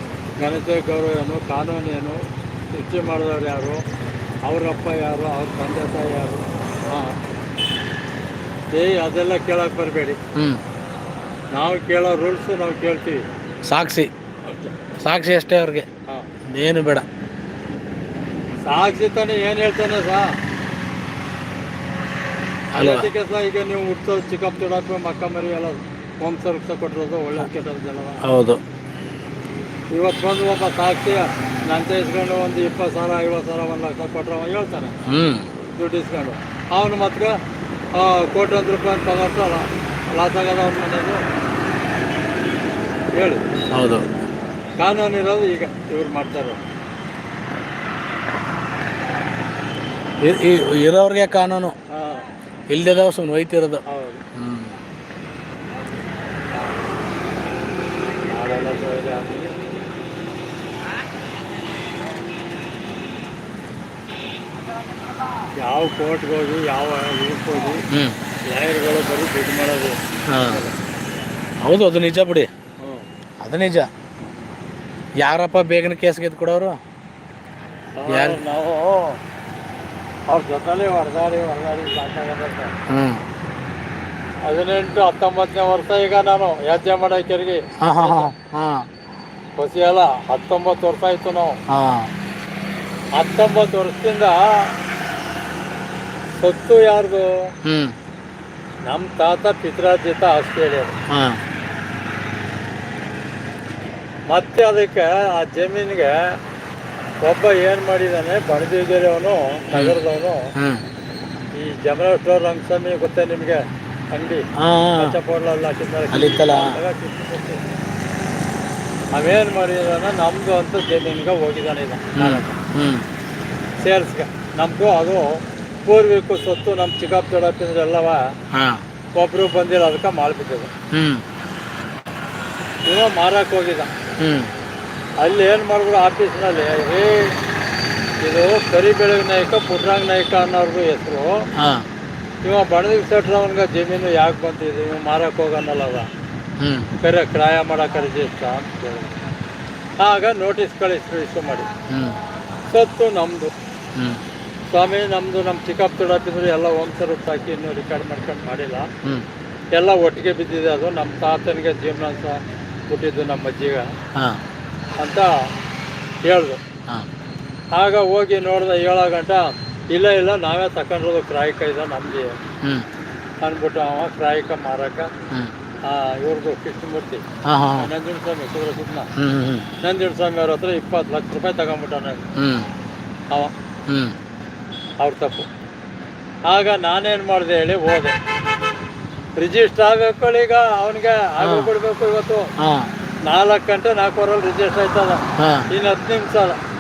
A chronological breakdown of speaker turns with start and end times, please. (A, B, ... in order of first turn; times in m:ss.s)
0:00.4-0:03.8 A
0:04.4-0:07.2 A
0:08.7-0:10.2 A
0:10.4-0:10.6 B
0:11.5-0:13.2 A
0:13.7-0:14.1 B
0:14.5-0:14.7 A
0:15.0-0:15.9 B
0:16.5-0:17.0 B
0:18.6-0:20.3 A
0:22.7-0:23.1 B
0:22.8-0:28.2 A
0:28.2-0:28.6 B
0:29.9-0:34.9 A
0:35.1-0:35.5 B
0:35.7-0:37.4 A
0:37.9-0:41.2 A
0:43.2-0:43.4 A
0:43.7-0:44.0 B
0:44.8-0:46.6 A
0:50.2-0:51.8 B
0:51.9-0:52.3 A
0:52.7-0:53.8 B
0:53.9-0:54.2 A
0:54.4-0:54.8 B
0:58.3-0:59.6 A
1:05.6-1:07.8 A
1:07.9-1:08.2 B
1:08.5-1:10.7 A
1:10.3-1:10.6 B
1:11.6-1:12.5 B
1:12.8-1:13.1 A
1:13.4-1:13.9 B
1:15.2-1:16.8 B
1:18.0-1:19.2 A
1:18.1-1:18.4 B
1:20.3-1:22.7 A
1:22.9-1:23.2 B
1:24.4-1:28.3 A
1:27.8-1:28.9 B
1:29.6-1:31.6 A
1:31.7-1:32.1 B
1:33.2-1:34.7 A
1:36.4-1:37.3 A
1:37.6-1:37.9 B
1:38.8-1:40.9 A
1:41.1-1:41.4 B
1:44.3-1:46.4 A
1:47.2-1:50.5 A
1:49.7-1:50.0 B
1:50.6-1:50.8 B
1:51.5-1:54.4 A
1:54.6-1:55.2 B
1:55.0-1:57.6 A
1:56.1-1:56.8 B
1:59.1-2:02.6 A
2:02.2-2:03.1 B
2:03.8-2:08.2 A
2:08.5-2:08.8 B
2:09.2-2:10.7 A
2:10.9-2:11.2 B
2:12.9-2:13.9 A
2:14.2-2:14.5 B
2:15.2-2:17.3 A
2:18.2-2:21.4 A
2:21.6-2:21.8 B
2:22.4-2:26.1 A
2:26.6-2:26.9 B
2:27.0-2:29.2 A
2:30.0-2:31.7 A
2:31.9-2:32.2 B
2:32.7-2:33.5 A
2:34.0-2:34.2 B
2:34.7-2:38.9 A
2:39.7-2:42.4 A
2:42.9-2:43.9 A
2:44.2-2:44.4 B
2:45.0-2:45.3 A
2:46.2-2:46.6 A
2:47.7-2:52.4 A
2:53.4-2:55.1 A
2:55.8-2:57.2 A
2:57.5-2:57.9 B
2:57.8-2:59.1 A
2:59.2-2:59.7 B
2:59.8-3:02.3 A
3:02.4-3:02.7 B
3:03.9-3:04.2 B
3:05.0-3:05.5 A
3:06.5-3:08.2 A
3:09.4-3:12.5 A
3:11.4-3:11.7 B
3:12.6-3:12.9 B
3:13.3-3:16.6 A
3:15.4-3:15.7 B